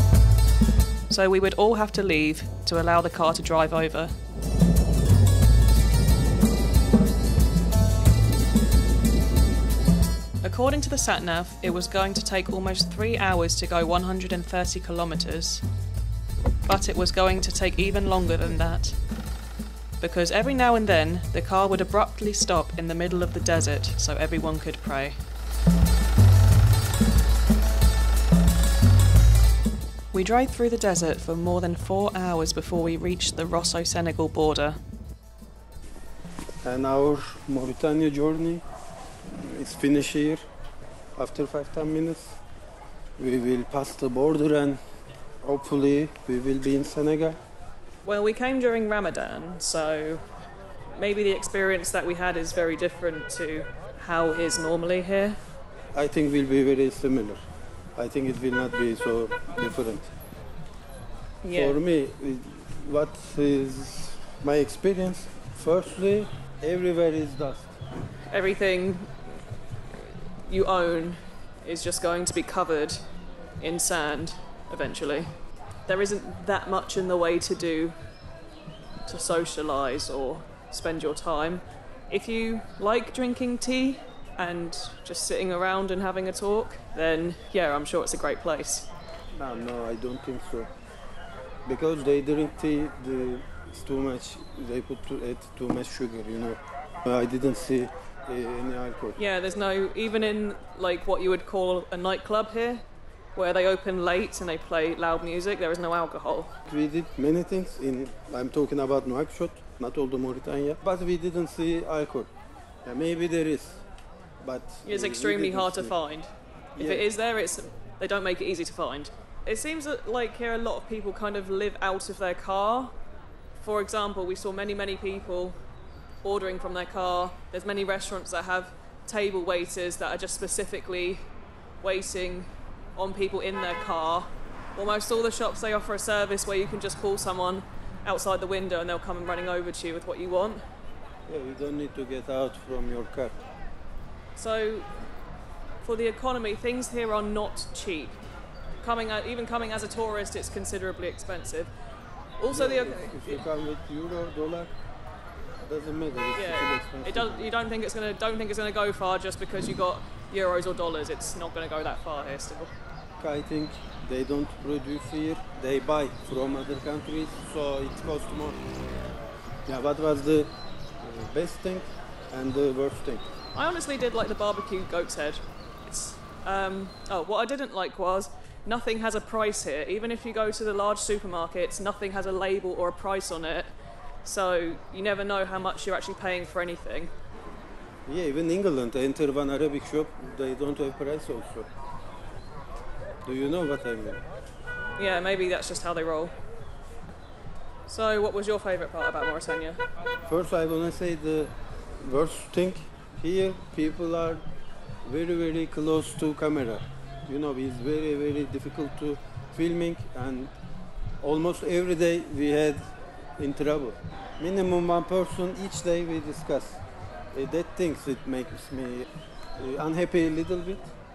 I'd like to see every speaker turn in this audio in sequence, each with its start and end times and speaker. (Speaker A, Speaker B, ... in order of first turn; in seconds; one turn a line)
Speaker A: 1.1-4.1
Speaker A: 10.4-15.6
Speaker A: 16.7-19.0
Speaker A: 20.0-25.2
Speaker A: 30.1-34.8
Speaker B: 36.6-38.6
Speaker B: 39.4-40.4
Speaker B: 41.2-42.4
Speaker B: 43.2-44.8
Speaker B: 45.4-47.4
Speaker A: 48.0-50.2
Speaker A: 51.0-55.4
Speaker B: 55.9-57.4
Speaker B: 58.0-60.1
Speaker A: 61.4-61.8
Speaker B: 61.5-67.8
Speaker A: 68.3-69.2
Speaker A: 69.9-73.0
Speaker A: 73.6-75.3
Speaker A: 75.9-78.0
Speaker A: 79.1-88.9
Speaker B: 89.3-90.7
Speaker B: 91.7-99.2
Speaker A: 99.2-102.8
Speaker A: 103.3-106.5
Speaker B: 106.7-112.3
Speaker B: 112.8-113.8
Speaker B: 114.4-116.0
Speaker A: 114.8-123.0
Speaker B: 116.8-117.1
Speaker A: 123.6-125.6
Speaker A: 126.2-131.3
Speaker A: 131.8-140.6
Speaker B: 141.3-143.5
Speaker A: 144.4-144.9
Speaker A: 145.8-148.2
Speaker A: 148.8-151.7
Speaker A: 152.4-153.4
Speaker B: 152.5-154.7
Speaker B: 155.6-157.6
Speaker A: 156.3-162.7
Speaker B: 163.2-168.6
Speaker B: 169.7-173.3
Speaker A: 173.5-183.7
Speaker A: 184.2-187.1
Speaker B: 188.1-191.7
Speaker B: 193.2-194.2
Speaker A: 195.0-196.4
Speaker A: 197.9-199.8
Speaker B: 200.2-204.4
Speaker B: 205.0-210.5
Speaker B: 211.2-220.9